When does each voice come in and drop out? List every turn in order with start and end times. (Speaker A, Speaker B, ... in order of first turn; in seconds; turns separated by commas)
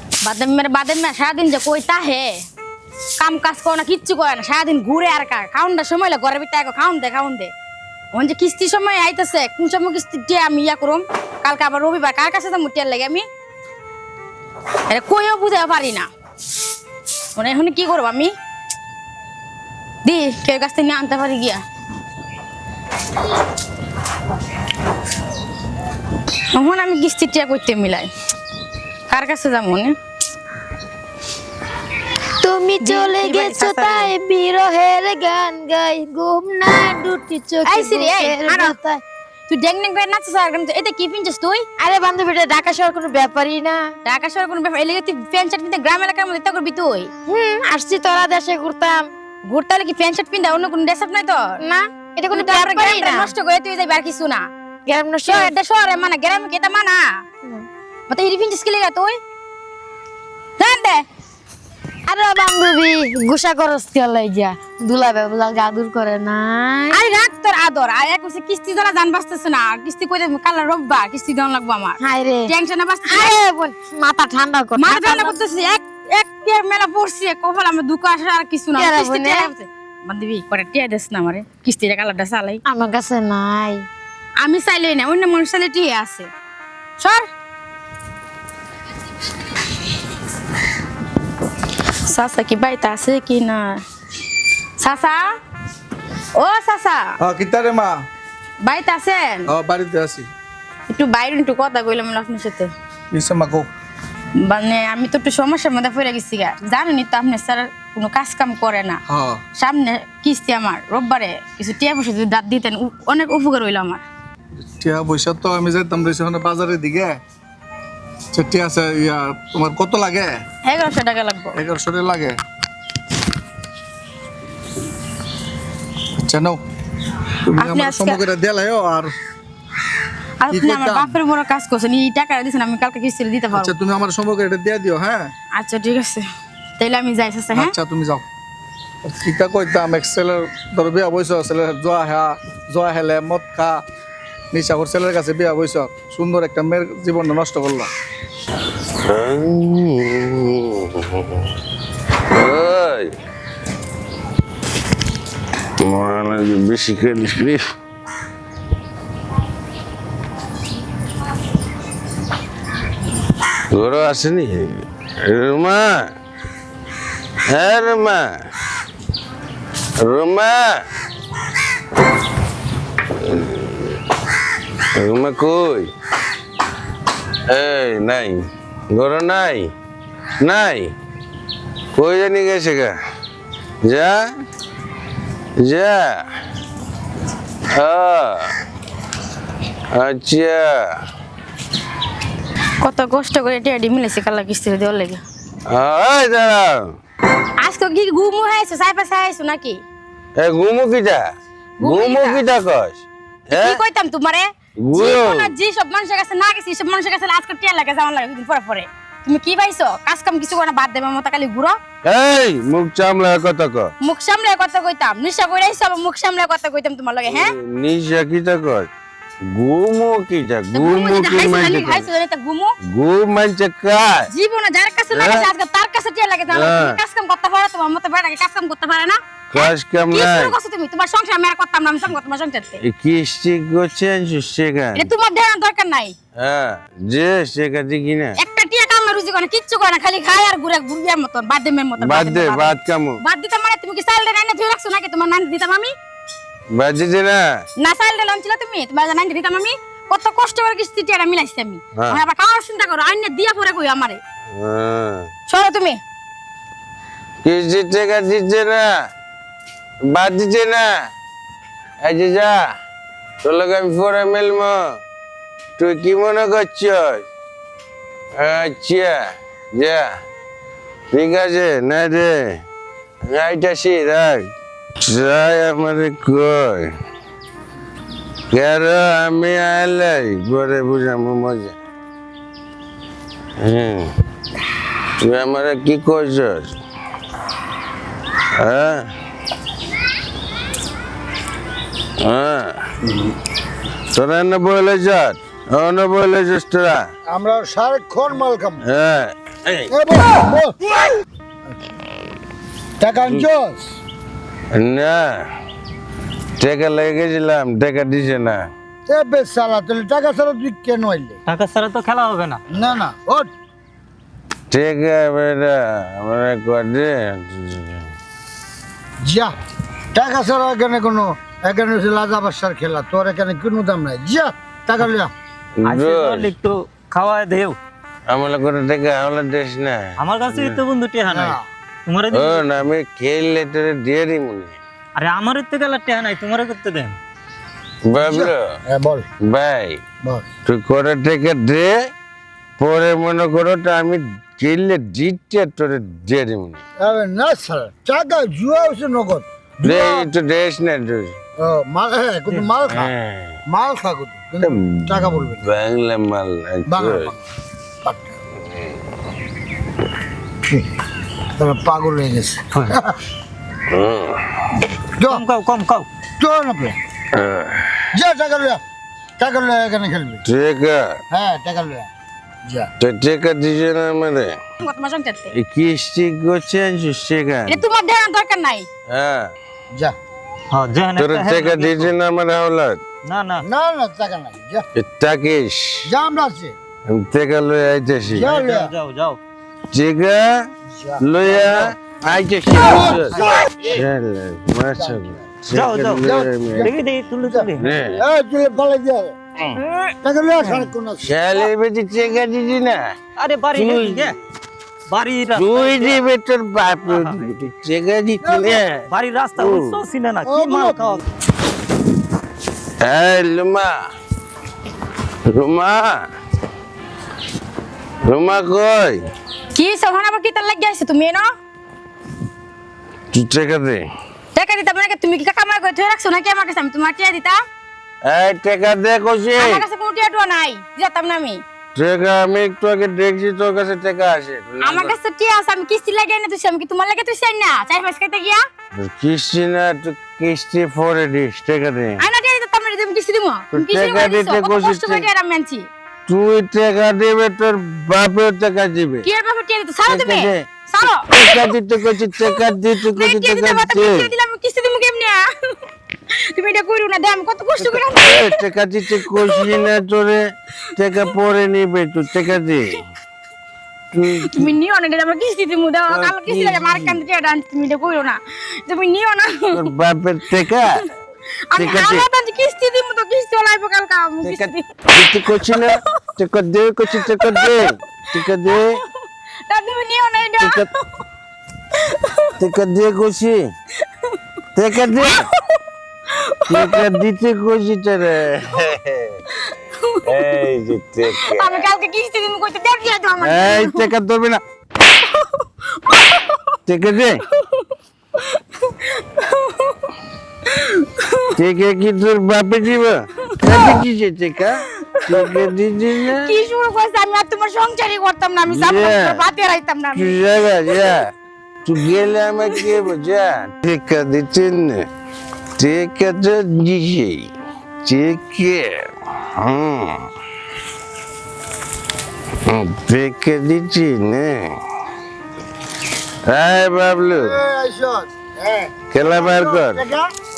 Speaker A: 0.2-2.3, Speaker A: 3.2-7.5, Speaker A: 8.1-13.2, Speaker A: 14.9-16.1, Speaker A: 17.4-18.3, Speaker A: 20.0-21.6, Speaker A: 26.5-28.1, Speaker A: 29.1-29.9, Speaker B: 32.4-39.0, Speaker A: 32.8-34.1, Speaker A: 37.6-38.8, Speaker A: 39.5-41.6, Speaker B: 41.8-43.8, Speaker A: 44.0-47.1, Speaker B: 47.3-49.1, Speaker A: 49.5-51.4, Speaker B: 51.6-53.3, Speaker A: 52.3-54.5, Speaker B: 54.9-55.5, Speaker A: 55.2-57.0, Speaker A: 58.1-59.2, Speaker A: 60.6-61.0, Speaker B: 62.1-67.1, Speaker A: 66.9-73.4, Speaker B: 72.0-72.5, Speaker B: 73.0-75.4, Speaker A: 74.8-82.6, Speaker B: 78.8-79.5, Speaker B: 82.7-83.9, Speaker A: 84.4-86.3, Speaker A: 87.0-87.2, Speaker A: 92.1-93.8, Speaker A: 94.8-95.2, Speaker A: 96.4-97.1, Speaker C: 97.2-97.9, Speaker A: 98.6-99.5, Speaker C: 99.5-100.3, Speaker A: 100.9-102.7, Speaker C: 103.1-103.7, Speaker A: 104.4-109.0, Speaker C: 109.1-109.4, Speaker A: 109.5-114.0, Speaker C: 114.8-117.2, Speaker C: 118.3-120.4, Speaker A: 120.6-121.6, Speaker C: 121.5-122.4, Speaker C: 126.2-126.6, Speaker C: 127.5-129.1, Speaker A: 127.6-128.2, Speaker A: 130.4-133.7, Speaker C: 130.5-131.1, Speaker C: 133.5-135.3, Speaker A: 135.6-136.2, Speaker A: 136.8-137.7, Speaker C: 137.5-138.2, Speaker C: 139.0-143.8, Speaker C: 144.5-147.9, Speaker D: 149.0-151.4, Speaker D: 152.3-153.1, Speaker D: 155.8-157.6, Speaker D: 163.7-166.1, Speaker D: 167.5-168.4, Speaker D: 170.0-170.8, Speaker D: 173.3-173.9, Speaker D: 174.9-175.9, Speaker D: 177.5-179.7, Speaker D: 180.4-180.9, Speaker D: 181.9-182.9, Speaker D: 183.8-184.2, Speaker D: 185.6-186.2, Speaker D: 187.7-188.5, Speaker D: 189.9-191.0, Speaker A: 192.8-195.2, Speaker D: 195.7-196.9, Speaker A: 197.6-199.8, Speaker D: 200.3-201.2, Speaker A: 201.8-202.4, Speaker D: 201.8-203.8, Speaker A: 203.5-211.7, Speaker D: 204.8-205.5, Speaker D: 212.0-213.9, Speaker A: 214.0-217.5, Speaker D: 217.2-218.9, Speaker D: 219.5-222.1, Speaker A: 220.7-222.7, Speaker D: 222.9-224.3, Speaker A: 224.3-232.8, Speaker D: 225.1-225.5, Speaker D: 226.5-227.0, Speaker D: 229.5-230.6, Speaker D: 232.8-235.1, Speaker A: 234.9-236.2, Speaker D: 236.3-238.4, Speaker A: 238.4-245.9, Speaker D: 242.0-243.2, Speaker D: 246.7-247.4, Speaker A: 247.8-254.2, Speaker D: 251.9-252.2, Speaker D: 254.5-255.3, Speaker A: 255.5-256.0, Speaker D: 257.4-258.9, Speaker D: 260.0-260.9, Speaker D: 262.0-262.7, Speaker D: 263.4-265.0, Speaker D: 265.8-267.2, Speaker D: 268.3-270.1, Speaker D: 271.1-272.6, Speaker D: 273.2-276.9, Speaker D: 278.5-281.8, Speaker D: 283.6-284.1, Speaker D: 285.2-286.7, Speaker D: 288.6-289.1, Speaker D: 292.2-292.9, Speaker D: 294.1-297.1, Speaker E: 297.3-298.8, Speaker D: 298.8-299.9, Speaker E: 299.9-300.8, Speaker E: 303.0-303.9, Speaker D: 304.7-305.4, Speaker D: 306.6-308.7, Speaker E: 309.1-311.4, Speaker F: 311.5-312.6, Speaker E: 312.7-313.5, Speaker D: 314.7-318.1, Speaker E: 319.2-319.5, Speaker E: 320.1-325.3, Speaker D: 325.8-326.5, Speaker F: 325.8-327.8, Speaker D: 328.3-330.8, Speaker F: 330.2-332.9, Speaker E: 331.2-331.6, Speaker D: 332.3-334.8, Speaker F: 335.2-337.2, Speaker D: 338.1-338.8, Speaker E: 338.2-339.2, Speaker D: 339.4-340.0, Speaker E: 340.2-340.5, Speaker D: 340.6-342.1, Speaker D: 342.8-346.8, Speaker E: 347.0-350.3, Speaker D: 349.8-351.4, Speaker E: 351.6-353.1, Speaker D: 352.9-353.6, Speaker E: 353.7-355.7, Speaker D: 354.6-357.3, Speaker E: 356.9-357.4, Speaker E: 358.0-358.3, Speaker E: 361.5-363.2, Speaker D: 363.9-364.4, Speaker E: 365.1-365.4, Speaker F: 365.2-366.1, Speaker E: 366.4-367.0, Speaker D: 367.4-368.1, Speaker E: 368.1-368.8, Speaker E: 369.4-370.4, Speaker D: 370.4-371.2, Speaker E: 371.3-372.1, Speaker D: 373.0-374.6, Speaker A: 374.8-375.5, Speaker D: 375.5-377.8, Speaker A: 377.7-378.9, Speaker D: 379.1-379.5, Speaker F: 380.7-382.1, Speaker D: 381.1-383.0, Speaker F: 383.2-383.6, Speaker E: 383.6-384.8, Speaker D: 384.9-386.1, Speaker E: 386.0-386.8, Speaker D: 387.1-388.4, Speaker E: 388.3-388.9, Speaker F: 388.4-389.4, Speaker D: 389.9-390.7, Speaker E: 390.9-392.0, Speaker D: 391.2-396.9, Speaker E: 392.7-394.0, Speaker E: 394.9-395.6, Speaker F: 395.7-397.9, Speaker E: 396.1-399.4, Speaker D: 397.8-398.2, Speaker F: 399.8-400.9, Speaker E: 400.2-401.4, Speaker D: 401.2-403.1, Speaker F: 403.4-404.4, Speaker D: 403.8-404.3, Speaker F: 405.1-406.2, Speaker D: 405.5-410.0, Speaker F: 407.0-407.5, Speaker F: 409.1-411.2, Speaker E: 410.4-411.2, Speaker D: 413.0-414.0, Speaker D: 415.4-416.3, Speaker D: 418.2-419.3, Speaker A: 419.7-421.4, Speaker D: 423.3-424.0, Speaker A: 424.5-427.6, Speaker D: 428.2-429.8, Speaker A: 429.6-431.6, Speaker D: 431.9-435.2, Speaker A: 434.8-438.6, Speaker D: 438.9-442.2, Speaker A: 442.2-445.9, Speaker D: 443.7-445.3, Speaker D: 446.3-449.3, Speaker A: 449.2-455.8, Speaker D: 450.1-450.7, Speaker D: 451.3-454.3, Speaker A: 456.5-459.9, Speaker D: 457.8-463.0, Speaker D: 464.1-464.8, Speaker A: 464.4-469.8, Speaker D: 466.1-467.2, Speaker D: 469.7-471.0, Speaker A: 470.5-471.0, Speaker A: 471.7-475.7, Speaker D: 471.8-472.3, Speaker D: 474.4-479.0, Speaker A: 477.1-477.8, Speaker A: 478.4-478.8, Speaker A: 479.7-481.0, Speaker D: 480.6-480.9, Speaker A: 481.9-482.5, Speaker D: 482.6-483.7, Speaker D: 484.7-485.4, Speaker A: 484.9-485.6, Speaker A: 486.3-487.1, Speaker D: 486.7-489.4, Speaker A: 489.9-490.6, Speaker D: 490.3-491.9, Speaker A: 491.2-494.1, Speaker D: 493.4-494.6, Speaker A: 495.2-496.8, Speaker D: 496.9-497.4, Speaker A: 497.5-500.1, Speaker A: 500.6-501.5, Speaker D: 501.6-506.5, Speaker A: 503.4-503.9, Speaker A: 505.0-505.7, Speaker A: 506.2-511.2, Speaker D: 508.6-509.4, Speaker D: 510.1-511.3, Speaker D: 511.8-515.1, Speaker A: 512.6-513.1, Speaker D: 515.8-517.5, Speaker D: 518.0-520.3, Speaker D: 522.6-524.8, Speaker D: 526.5-527.6, Speaker E: 527.3-530.3, Speaker D: 529.1-530.0